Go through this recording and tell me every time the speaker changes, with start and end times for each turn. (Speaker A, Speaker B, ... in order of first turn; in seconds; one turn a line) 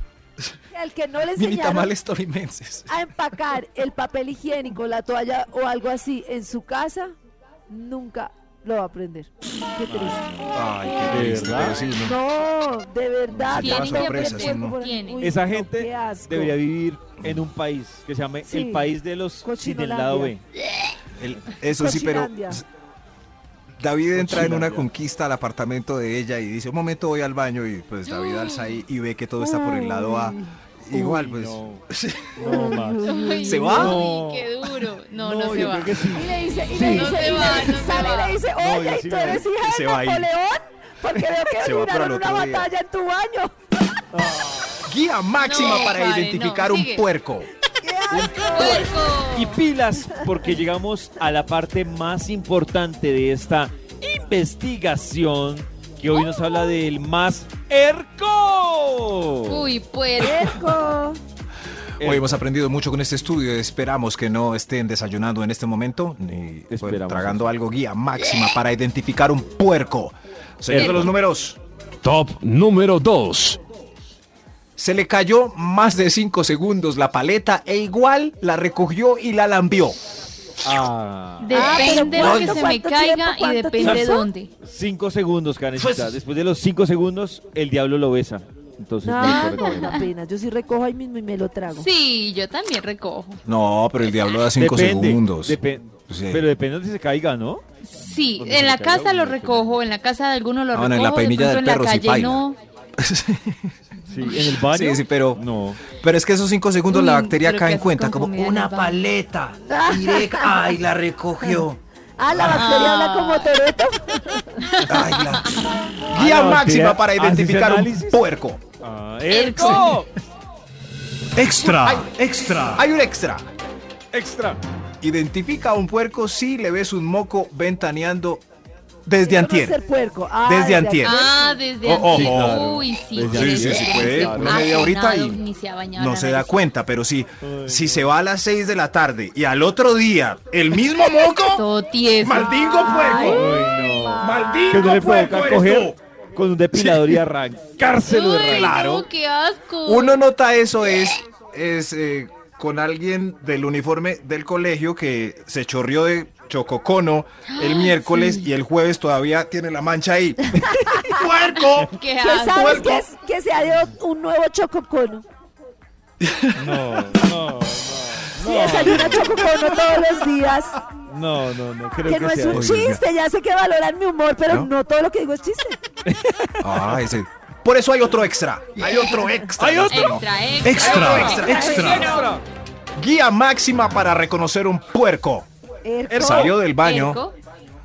Speaker A: 0.7-1.9
Speaker B: 1.3-2.9
Speaker A: 2.9-7.1
Speaker A: 7.7-10.4
Speaker C: 9.9-10.6
Speaker B: 10.5-12.2
Speaker C: 11.1-11.8
Speaker A: 11.9-16.6
Speaker C: 13.3-13.6
Speaker B: 13.4-14.8
Speaker D: 13.5-15.3
Speaker C: 15.2-20.4
Speaker A: 18.4-20.3
Speaker B: 21.2-22.6
Speaker A: 21.7-22.6
Speaker B: 23.8-32.6
Speaker C: 24.1-24.9
Speaker D: 28.0-28.8
Speaker A: 29.4-30.6
Speaker C: 30.9-34.5
Speaker A: 32.4-34.0
Speaker D: 33.0-38.4
Speaker B: 33.4-34.0
Speaker C: 35.2-37.1
Speaker A: 36.0-43.5
Speaker C: 38.6-39.5
Speaker B: 39.2-40.3
Speaker B: 41.6-42.7
Speaker C: 44.1-44.8
Speaker B: 44.8-47.5
Speaker D: 45.4-47.0
Speaker A: 47.7-49.0
Speaker C: 48.1-59.7
Speaker D: 48.3-49.6
Speaker B: 48.5-48.9
Speaker D: 59.5-60.5
Speaker A: 60.2-61.2
Speaker C: 62.0-62.3
Speaker B: 62.0-71.6
Speaker C: 66.7-67.5
Speaker C: 70.7-71.2
Speaker D: 70.7-71.0
Speaker E: 72.0-73.6
Speaker B: 74.8-80.0
Speaker C: 80.6-82.2
Speaker D: 81.4-84.5
Speaker A: 81.5-84.2
Speaker B: 82.0-82.7
Speaker C: 84.6-90.0
Speaker B: 85.7-86.2
Speaker A: 89.0-91.9
Speaker D: 89.2-90.1
Speaker D: 91.7-93.4
Speaker B: 93.5-96.5
Speaker D: 94.0-94.4
Speaker C: 94.5-99.8
Speaker D: 97.8-102.6
Speaker B: 100.7-102.4
Speaker B: 103.0-105.4
Speaker C: 104.1-105.8
Speaker B: 106.0-111.8
Speaker D: 106.9-109.0
Speaker A: 109.7-110.6
Speaker A: 111.4-111.7
Speaker A: 112.2-114.6
Speaker B: 112.3-112.7
Speaker D: 112.4-113.5
Speaker D: 114.6-115.7
Speaker B: 114.8-115.6
Speaker C: 116.1-118.2
Speaker B: 116.1-118.6
Speaker C: 118.8-120.1
Speaker D: 119.3-120.0
Speaker B: 119.6-119.9
Speaker B: 121.4-123.5
Speaker E: 121.6-122.8
Speaker C: 124.1-124.6
Speaker B: 125.0-128.4
Speaker B: 129.1-129.8
Speaker A: 129.2-131.6
Speaker B: 130.4-131.2
Speaker D: 131.0-136.6
Speaker B: 131.8-132.6
Speaker C: 132.1-134.7
Speaker B: 133.2-135.4
Speaker B: 135.9-141.6
Speaker C: 137.4-138.1
Speaker D: 141.5-143.1
Speaker B: 142.2-143.5
Speaker A: 142.6-145.3
Speaker C: 143.2-148.8
Speaker B: 144.2-146.0
Speaker B: 146.7-147.2
Speaker D: 148.0-150.2
Speaker B: 148.4-149.1
Speaker B: 149.8-161.9
Speaker D: 157.5-158.5
Speaker D: 161.5-163.1
Speaker A: 162.2-165.2
Speaker B: 162.5-163.0
Speaker B: 166.2-167.1
Speaker C: 166.6-169.6
Speaker A: 168.4-170.7
Speaker B: 168.8-169.6
Speaker C: 171.1-172.7
Speaker A: 172.0-175.8
Speaker B: 172.5-173.0
Speaker C: 176.1-177.1
Speaker B: 176.6-182.2
Speaker C: 179.5-182.4
Speaker D: 179.9-182.2
Speaker A: 181.2-182.2
Speaker B: 183.0-185.5
Speaker A: 185.8-186.6
Speaker C: 186.1-186.6
Speaker B: 186.2-187.2
Speaker D: 186.8-187.3